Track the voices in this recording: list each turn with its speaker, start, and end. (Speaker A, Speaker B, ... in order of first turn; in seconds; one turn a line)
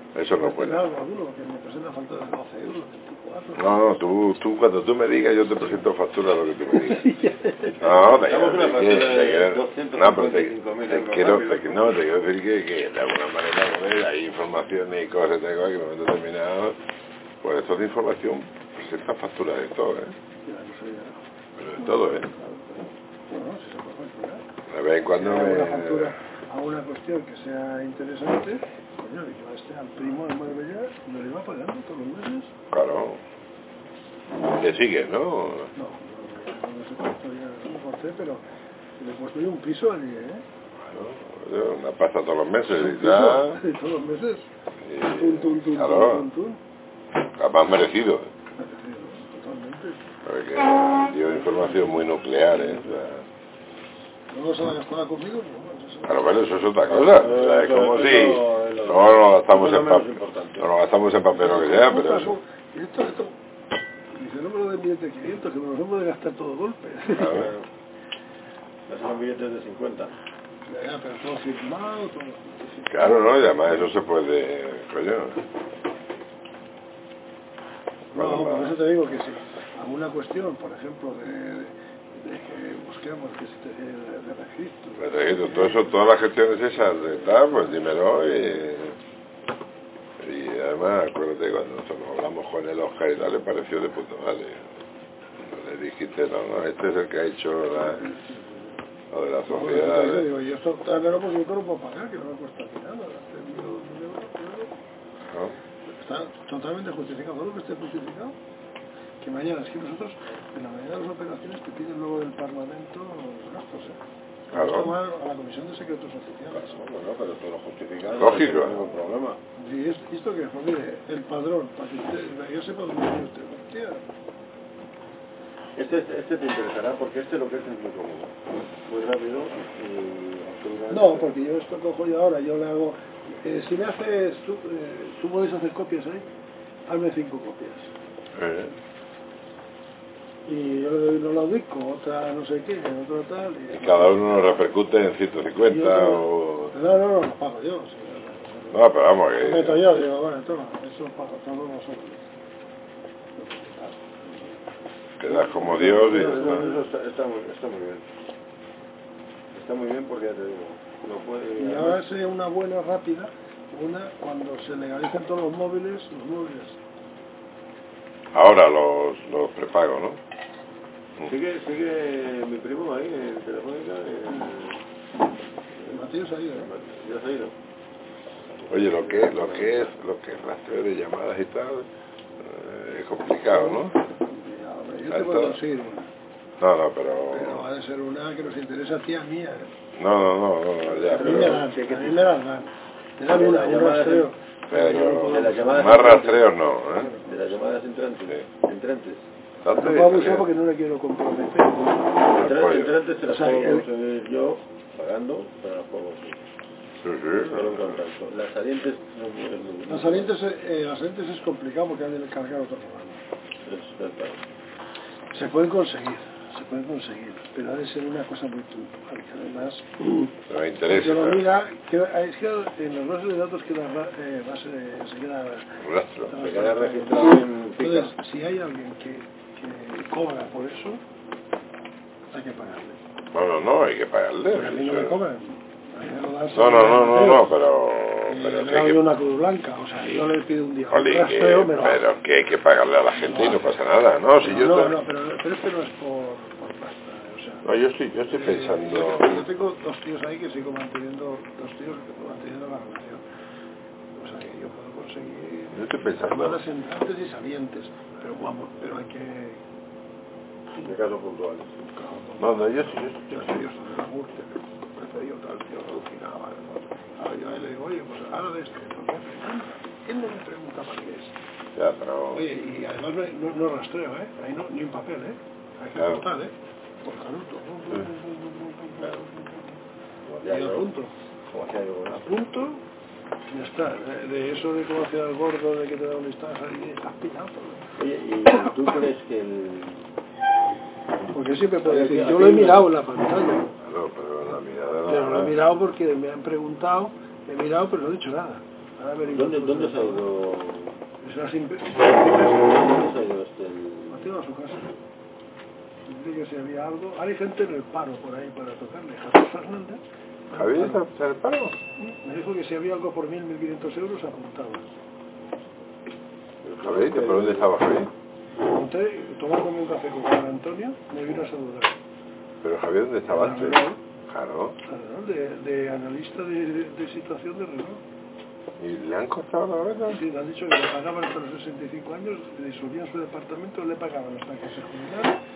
Speaker A: 0.1-0.8
Speaker B: 0.3-3.9
Speaker A: 3.6-7.1
Speaker B: 6.7-7.8
Speaker A: 7.8-16.8
Speaker C: 8.0-12.0
Speaker A: 17.4-20.2
Speaker B: 20.4-21.2
Speaker A: 21.6-22.3
Speaker B: 21.8-24.4
Speaker A: 24.7-26.1
Speaker B: 25.1-32.5
Speaker A: 32.7-33.2
Speaker A: 34.5-35.7
Speaker B: 35.8-38.4
Speaker B: 39.0-40.4
Speaker A: 40.8-43.6
Speaker B: 42.7-44.5
Speaker A: 44.9-46.3
Speaker B: 45.0-46.6
Speaker A: 47.4-48.3
Speaker B: 48.6-50.1
Speaker A: 50.2-53.2
Speaker B: 51.4-52.0
Speaker B: 54.3-56.3
Speaker A: 56.1-62.4
Speaker C: 56.9-60.7
Speaker B: 61.3-63.4
Speaker B: 64.1-67.5
Speaker A: 67.2-67.5
Speaker C: 67.2-67.7
Speaker C: 68.9-70.2
Speaker B: 70.7-73.9
Speaker A: 72.9-75.4
Speaker B: 78.1-85.9
Speaker A: 78.1-78.8
Speaker A: 85.0-89.0
Speaker A: 90.2-94.7
Speaker A: 95.4-98.1
Speaker B: 97.8-98.7
Speaker A: 99.1-100.3
Speaker B: 99.5-104.7
Speaker A: 105.3-105.6
Speaker B: 105.9-108.4
Speaker B: 109.2-114.0
Speaker B: 114.5-116.8
Speaker A: 114.5-114.9
Speaker C: 116.6-119.4
Speaker A: 118.2-118.9
Speaker B: 119.6-124.0
Speaker C: 125.8-128.3
Speaker C: 128.9-131.3
Speaker B: 130.9-136.2
Speaker B: 136.9-137.9
Speaker A: 138.3-138.7
Speaker B: 140.5-144.2
Speaker A: 143.7-146.8
Speaker B: 145.6-148.8
Speaker A: 148.7-149.8
Speaker B: 149.4-152.2
Speaker B: 153.3-154.6
Speaker A: 155.2-156.7
Speaker B: 155.2-156.8
Speaker C: 155.8-158.1
Speaker C: 159.5-162.0
Speaker B: 161.6-166.8
Speaker A: 168.3-170.2
Speaker C: 171.2-174.8
Speaker B: 175.8-176.7
Speaker C: 175.9-177.6
Speaker C: 178.6-179.9
Speaker A: 178.7-181.9
Speaker A: 182.4-183.9
Speaker B: 183.5-186.1
Speaker A: 185.1-185.6
Speaker A: 186.6-187.6
Speaker B: 187.3-189.7
Speaker A: 190.0-191.7
Speaker C: 190.8-192.3
Speaker B: 191.2-196.1
Speaker C: 193.3-194.3
Speaker A: 194.7-197.2
Speaker C: 195.0-196.5
Speaker B: 197.0-197.5
Speaker C: 197.2-199.2
Speaker A: 199.6-200.5
Speaker B: 199.7-202.4
Speaker C: 202.2-206.4
Speaker A: 202.3-202.9
Speaker B: 203.2-203.9
Speaker A: 207.0-208.0
Speaker C: 207.3-210.3
Speaker B: 209.9-213.2
Speaker C: 213.6-214.4
Speaker B: 215.3-220.3
Speaker A: 220.5-221.5
Speaker B: 220.9-231.0
Speaker A: 225.8-226.4
Speaker C: 226.4-228.1
Speaker B: 232.3-233.0
Speaker A: 233.3-235.2
Speaker B: 234.5-237.5
Speaker A: 236.5-239.0
Speaker B: 238.3-242.0
Speaker A: 240.9-245.0
Speaker B: 243.2-243.6
Speaker B: 244.4-247.7
Speaker A: 247.6-249.5
Speaker B: 248.3-253.2
Speaker B: 254.2-259.6
Speaker A: 255.7-256.6
Speaker C: 260.8-261.7
Speaker B: 261.9-271.4
Speaker A: 262.4-263.6
Speaker A: 271.8-272.5
Speaker B: 272.3-279.8
Speaker A: 275.9-276.2
Speaker C: 280.3-280.9
Speaker B: 280.4-281.1
Speaker C: 281.5-282.5
Speaker B: 282.2-282.8
Speaker B: 283.5-287.9
Speaker C: 288.0-290.1
Speaker B: 291.3-293.7
Speaker C: 291.8-292.9
Speaker A: 293.8-295.6
Speaker B: 295.1-300.3
Speaker C: 299.3-301.0
Speaker B: 301.2-302.7
Speaker C: 302.5-304.3
Speaker B: 304.1-304.9
Speaker B: 306.1-311.0
Speaker A: 310.5-311.8
Speaker B: 312.0-314.8
Speaker C: 316.6-317.7
Speaker A: 316.8-318.1
Speaker B: 318.7-322.0
Speaker A: 322.6-324.8
Speaker B: 323.3-324.0
Speaker B: 324.9-328.0
Speaker A: 328.8-330.2
Speaker B: 330.1-335.4